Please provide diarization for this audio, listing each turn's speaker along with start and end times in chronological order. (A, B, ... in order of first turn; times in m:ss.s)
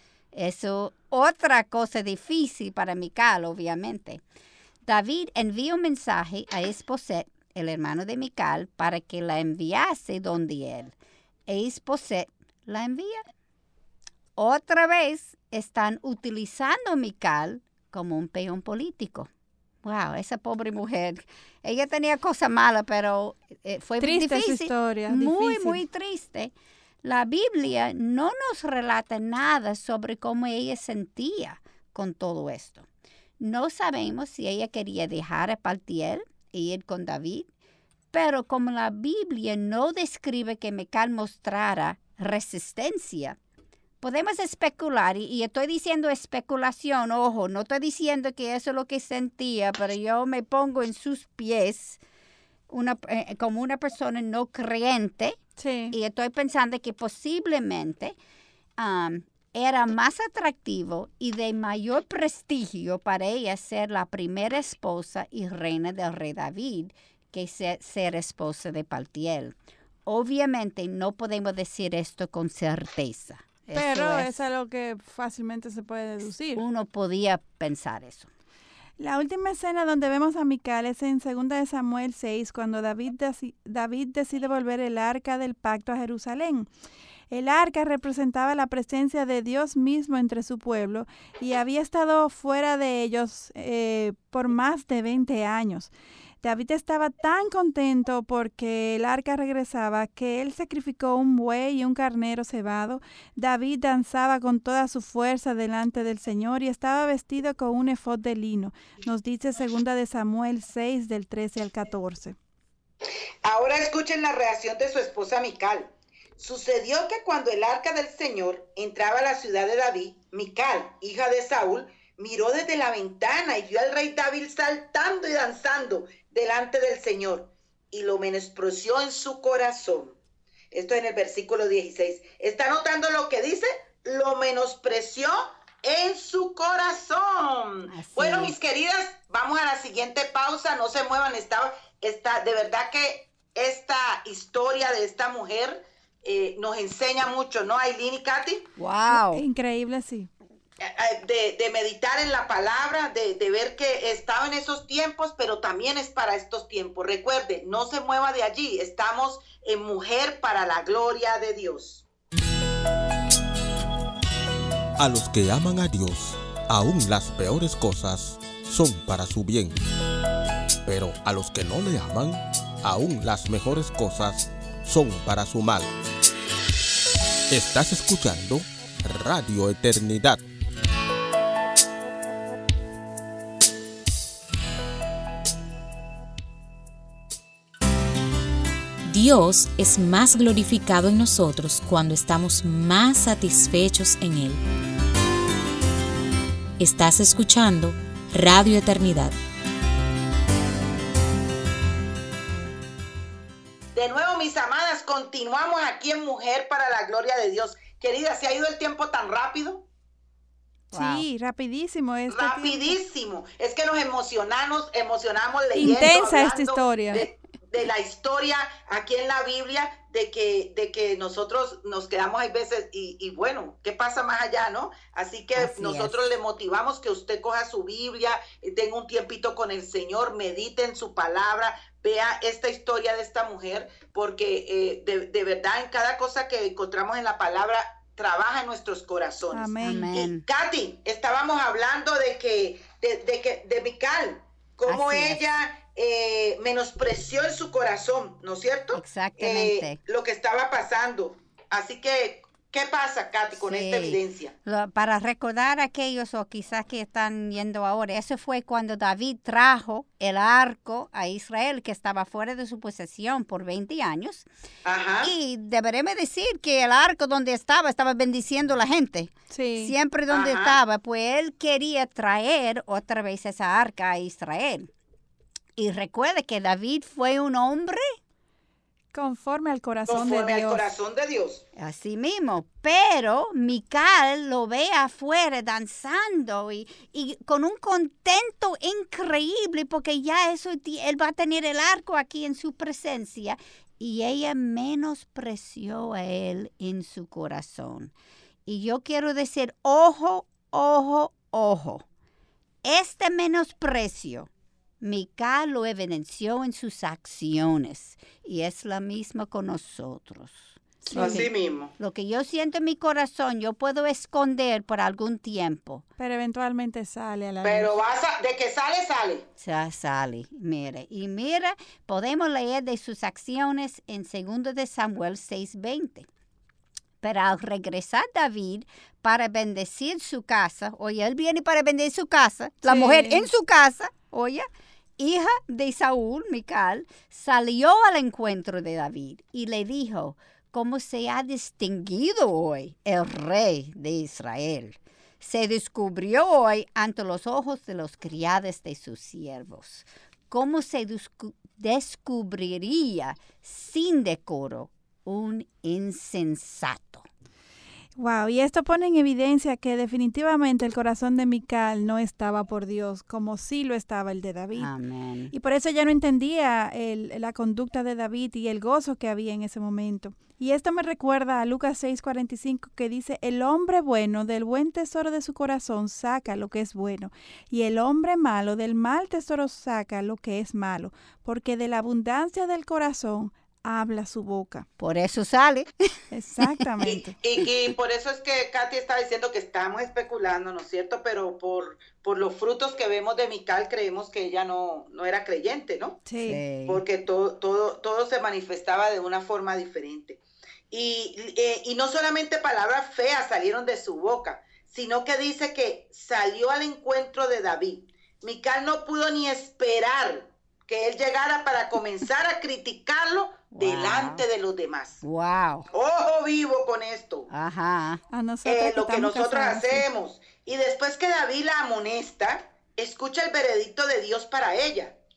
0:00.3-0:04.2 A
0:04.8-0:11.0 A
0:11.5-0:13.2 A
0:14.4-0:19.3 A
0:19.8-0:32.9 A
0:24.0-0:25.8 B
0:33.4-0:37.5 A
0:38.1-0:43.4 A
0:44.0-0:52.0 A
0:52.7-0:55.4 A
0:55.6-0:56.0 B
0:55.9-0:58.2 A
0:58.8-1:14.3 A
1:13.7-1:16.6 B
1:16.6-1:18.3 A
1:19.0-1:26.7 B
1:27.3-1:35.9 B
1:36.4-1:52.4 B
1:53.4-2:10.2 C
2:10.7-2:28.7 C
2:17.9-2:18.6 A
2:28.8-2:29.4 A
2:29.1-2:30.3 B
2:30.8-2:42.0 C
2:45.0-2:49.8 D
2:50.9-2:55.9 D
2:57.5-3:00.4 D
3:09.0-3:14.6 E
3:16.8-3:19.3 E
3:24.0-3:29.8 C
3:30.9-3:33.0 B
3:30.9-3:31.3 A
3:32.3-4:14.5 C
3:35.8-3:37.3 B
3:45.6-3:46.3 A
3:59.5-4:00.1 B
3:59.8-4:00.4 A
4:04.9-4:05.5 A
4:08.9-4:10.0 A
4:13.6-4:24.5 A
4:24.9-4:25.3 C
4:25.2-4:34.9 A
4:29.5-4:29.9 B
4:30.3-4:30.8 C
4:35.8-4:38.2 A
4:39.1-4:40.9 B
4:40.1-4:41.6 C
4:41.8-4:58.1 A
4:58.7-5:02.0 A
5:02.8-5:04.5 A
5:05.0-5:16.0 A
5:11.1-5:11.4 B
5:11.2-5:11.9 C
5:16.2-5:18.0 B
5:17.6-5:19.5 C
5:19.6-5:26.3 A
5:27.2-5:34.7 A
5:32.8-5:33.5 B
5:35.2-5:57.3 A
5:58.2-6:04.9 B
6:04.8-6:05.5 A
6:05.5-6:24.9 B
6:25.0-6:26.1 A
6:26.3-6:27.3 B
6:27.0-6:36.2 C
6:36.3-6:36.6 B
6:36.4-6:37.0 A
6:36.9-6:55.2 C
6:53.7-6:54.4 A
6:55.2-6:55.9 A
6:55.9-6:57.5 C
6:57.5-6:58.2 A
6:58.3-7:00.0 B
6:58.6-7:05.2 C